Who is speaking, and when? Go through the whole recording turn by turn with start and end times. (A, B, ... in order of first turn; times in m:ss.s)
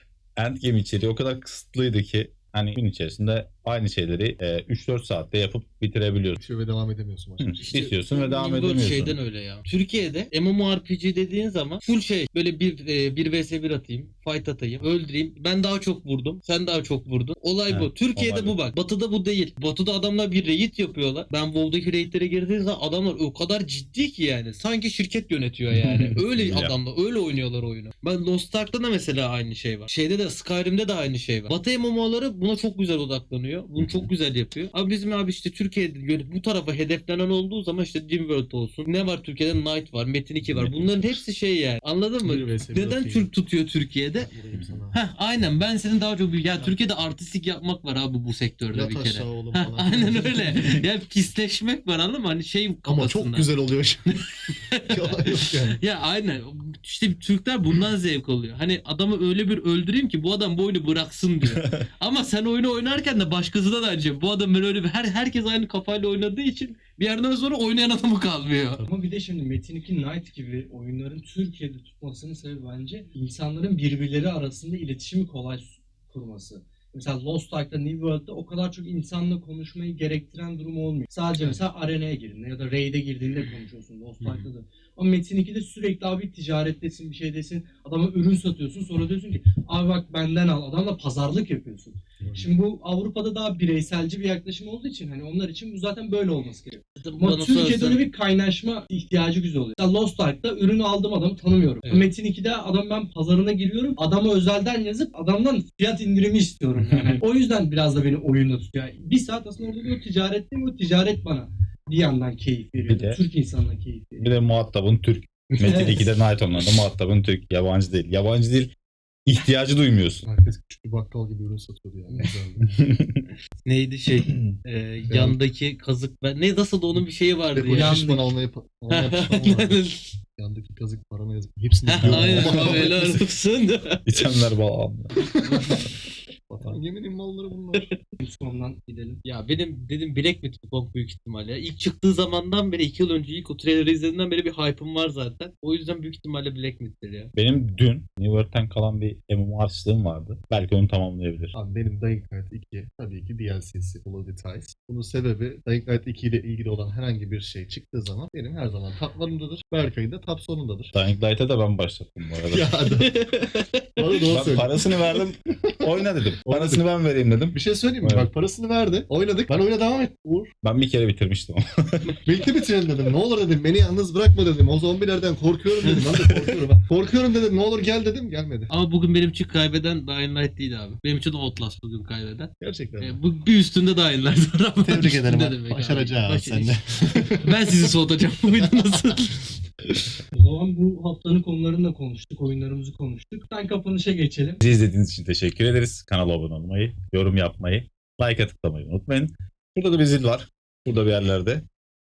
0:00.4-0:06.4 A
0:06.4-0:07.8 B
0:07.4-0:09.2 A
0:07.6-0:44.3 C
0:17.7-0:18.6 A
0:25.7-0:26.8 A
0:33.8-0:34.1 A
0:40.4-0:41.2 A
0:42.2-0:43.3 B
0:44.2-0:45.0 B
0:44.5-0:44.8 A
0:44.9-0:53.5 C
0:48.7-0:50.7 B
0:52.9-0:54.2 B
0:54.7-1:08.9 C
0:54.9-0:55.8 B
1:08.9-1:54.4 D
1:24.2-1:24.5 C
1:37.0-1:38.0 C
1:41.8-1:42.1 C
1:46.8-1:47.2 A
1:52.8-1:53.2 A
1:54.2-1:58.7 A
1:55.6-1:56.1 D
1:59.3-2:00.3 A
2:00.2-2:02.6 B
2:02.6-2:03.3 A
2:03.6-2:08.0 C
2:04.2-2:04.5 A
2:05.1-2:05.4 B
2:07.5-2:09.8 B
2:07.7-2:08.3 D
2:08.9-2:10.1 C
2:10.4-2:13.3 B
2:11.9-2:14.3 C
2:12.0-2:12.5 A
2:14.1-2:15.2 A
2:15.3-2:15.9 C
2:16.5-2:17.9 B
2:18.2-2:19.2 D
2:19.2-2:27.3 C
2:27.4-2:31.5 A
2:31.5-2:40.9 B
2:40.9-2:42.7 A
2:42.5-2:43.2 B
2:43.0-2:44.0 C
2:44.0-2:44.9 B
2:44.3-2:48.3 A
2:46.4-2:46.8 B
2:47.5-2:50.5 B
2:50.6-2:52.2 A
2:52.3-2:58.7 B
2:58.7-3:09.5 C
3:02.6-3:03.2 B
3:04.8-3:07.6 B
3:10.3-3:14.6 D
3:14.6-3:21.6 A